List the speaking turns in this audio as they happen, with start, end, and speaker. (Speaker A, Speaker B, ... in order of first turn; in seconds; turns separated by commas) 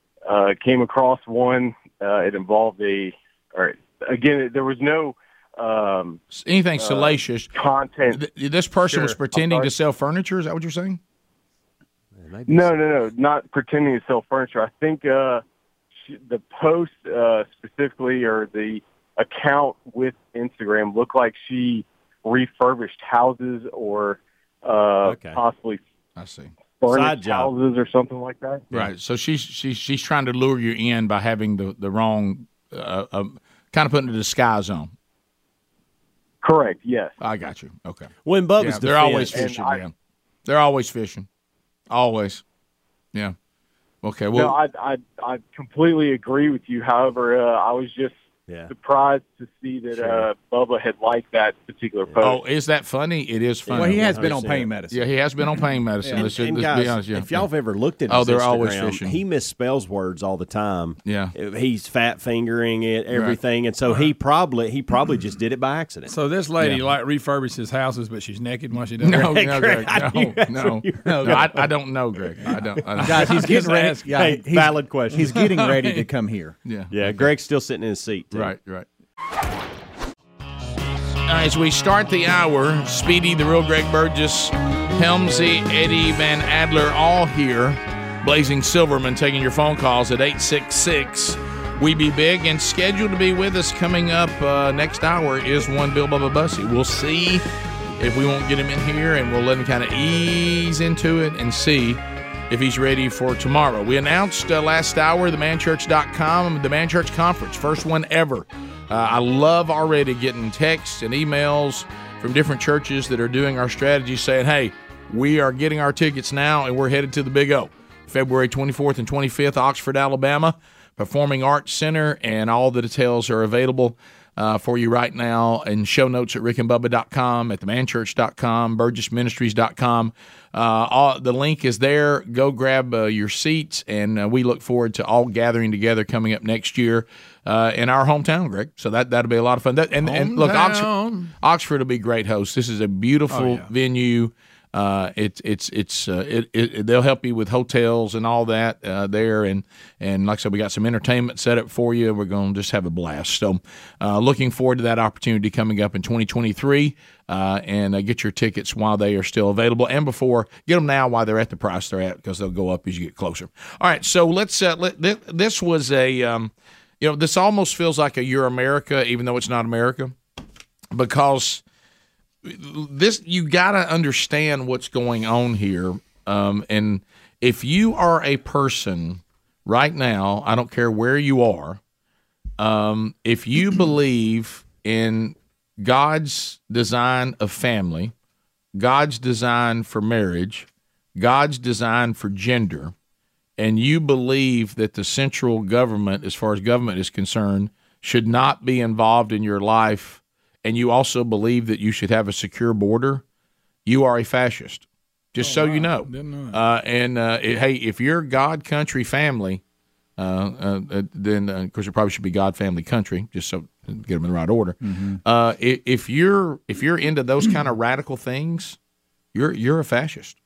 Speaker A: 0.2-6.2, Speaker B: 6.3-7.6, Speaker A: 6.8-8.2, Speaker B: 8.1-11.0, Speaker A: 8.9-9.7, Speaker C: 12.2-12.8, Speaker A: 12.5-15.4, Speaker A: 16.0-25.8, Speaker C: 25.0-25.4, Speaker B: 26.1-26.5, Speaker A: 26.8-28.7, Speaker C: 26.9-27.5, Speaker B: 28.7-34.9, Speaker A: 36.4-37.1, Speaker B: 37.2-39.9, Speaker C: 38.2-39.5, Speaker A: 39.3-39.8, Speaker B: 40.5-41.3, Speaker B: 41.9-42.4, Speaker B: 44.0-44.6, Speaker A: 44.3-48.1, Speaker A: 48.7-52.4, Speaker C: 49.9-50.3, Speaker B: 52.2-57.5, Speaker C: 53.7-54.7, Speaker D: 53.7-55.1, Speaker D: 56.0-56.3, Speaker C: 56.1-66.1, Speaker B: 58.1-59.2, Speaker B: 61.0-61.3, Speaker B: 63.1-63.4, Speaker E: 66.1-69.3, Speaker B: 69.0-73.4, Speaker C: 69.1-71.7, Speaker D: 71.0-71.5, Speaker D: 73.0-76.6, Speaker E: 73.1-74.1, Speaker C: 74.1-75.4, Speaker E: 75.3-76.0, Speaker B: 76.6-77.3, Speaker C: 76.9-78.5, Speaker B: 78.3-78.9, Speaker B: 81.2-97.4, Speaker B: 98.0-170.1, Speaker E: 140.0-141.3, Speaker E: 143.3-143.7, Speaker B: 170.9-171.6, Speaker B: 172.4-181.8, Speaker B: 182.6-188.1, Speaker B: 188.7-192.9, Speaker B: 193.6-203.2, Speaker B: 203.9-209.6, Speaker E: 205.4-206.6, Speaker B: 210.2-218.8, Speaker D: 214.8-215.2, Speaker B: 219.3-220.4